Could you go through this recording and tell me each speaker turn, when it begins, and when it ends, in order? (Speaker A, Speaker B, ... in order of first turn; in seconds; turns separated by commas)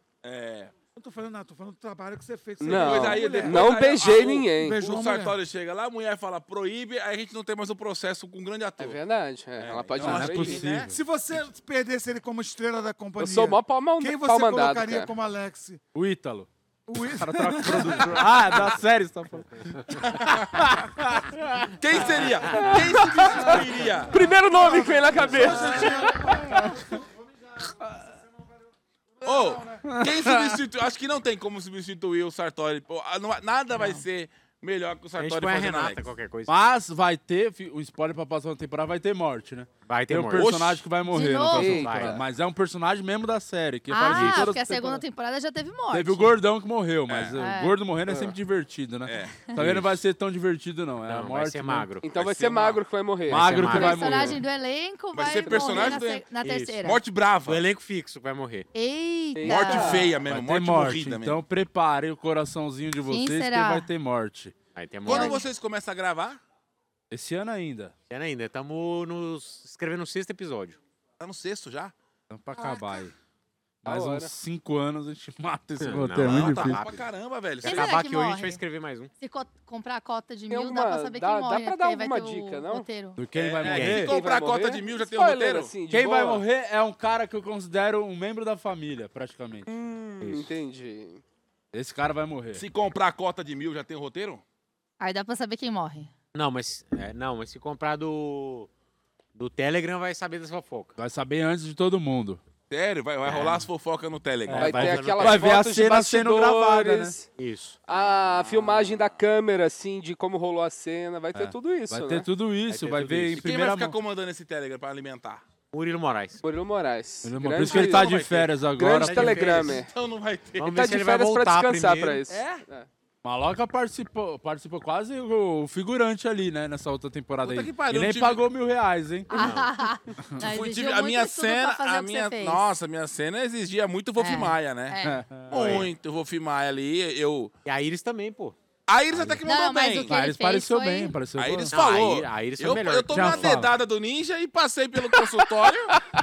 Speaker A: 0.2-0.7, Speaker B: 0.9-3.9, Speaker C: 2.6-4.8, Speaker A: 2.6-9.0, Speaker B: 4.6-5.4, Speaker C: 8.8-10.6, Speaker A: 9.6-10.8, Speaker D: 10.0-10.9, Speaker E: 10.2-10.7, Speaker B: 10.8-15.8, Speaker C: 13.2-15.1, Speaker D: 15.9-16.5, Speaker B: 16.9-18.2, Speaker D: 17.0-21.7, Speaker A: 20.0-20.7, Speaker A: 21.8-24.2, Speaker C: 22.5-26.2, Speaker B: 23.1-27.7, Speaker B: 29.2-29.9, Speaker A: 29.2-36.0, Speaker D: 29.9-30.3, Speaker E: 35.2-36.5, Speaker D: 36.5-45.0, Speaker E: 39.9-40.5, Speaker A: 40.3-40.8, Speaker F: 41.0-41.9, Speaker C: 41.5-42.2, Speaker E: 41.7-42.2, Speaker F: 43.9-46.3, Speaker D: 45.9-51.9, Speaker A: 47.1-47.3, Speaker F: 47.4-47.8, Speaker C: 48.1-48.3, Speaker A: 49.0-50.0, Speaker E: 51.1-52.0, Speaker C: 52.0-54.3, Speaker A: 52.1-52.8, Speaker D: 53.3-54.4, Speaker E: 53.3-54.2, Speaker F: 53.5-57.0, Speaker A: 55.1-56.2, Speaker C: 55.4-56.0, Speaker E: 56.4-56.8, Speaker A: 56.8-57.6, Speaker E: 57.4-58.7, Speaker F: 58.7-60.0, Speaker C: 59.4-60.1, Speaker A: 59.4-61.4, Speaker D: 60.2-64.5, Speaker F: 63.1-63.9, Speaker E: 64.7-65.4, Speaker A: 65.0-66.4, Speaker F: 65.0-65.4, Speaker D: 67.1-67.9, Speaker E: 68.1-70.8, Speaker A: 71.2-71.9, Speaker D: 72.3-73.1, Speaker F: 72.5-73.1, Speaker D: 73.8-76.8, Speaker C: 73.8-74.3, Speaker E: 75.8-77.0, Speaker A: 76.2-78.0, Speaker E: 77.6-79.1, Speaker F: 77.6-78.6, Speaker F: 79.2-83.2, Speaker C: 80.5-82.9, Speaker D: 83.2-84.1, Speaker A: 83.3-85.7, Speaker E: 83.6-84.1, Speaker C: 83.9-86.4, Speaker D: 85.9-89.7, Speaker C: 89.7-91.2, Speaker E: 90.2-90.5, Speaker D: 91.7-92.6, Speaker A: 92.5-94.4, Speaker F: 95.0-96.1, Speaker E: 96.3-98.7, Speaker E: 99.3-100.9, Speaker D: 101.0-102.4, Speaker A: 102.7-105.0, Speaker E: 103.2-103.7, Speaker D: 104.5-107.2, Speaker E: 104.5-105.6, Speaker C: 104.5-107.3, Speaker E: 107.4-107.8, Speaker C: 107.9-112.3, Speaker A: 107.9-109.1, Speaker D: 111.3-114.0, Speaker E: 112.7-113.4, Speaker A: 113.3-115.4, Speaker E: 115.7-116.4, Speaker C: 116.4-119.9, Speaker D: 117.2-119.7, Speaker A: 117.7-118.5, Speaker E: 119.0-119.8, Speaker A: 119.7-120.9, Speaker E: 120.6-122.2, Speaker C: 120.6-122.9, Speaker D: 123.2-129.3, Speaker A: 127.4-128.4, Speaker F: 129.3-132.6, Speaker E: 129.3-129.7, Speaker A: 130.4-137.5, Speaker F: 134.2-135.3, Speaker D: 135.0-135.8, Speaker E: 135.5-135.9, Speaker E: 137.6-138.6, Speaker A: 138.9-140.1, Speaker E: 139.1-139.4, Speaker F: 139.4-141.2, Speaker D: 140.1-141.8, Speaker A: 141.4-146.0, Speaker E: 141.7-143.6, Speaker D: 143.1-143.7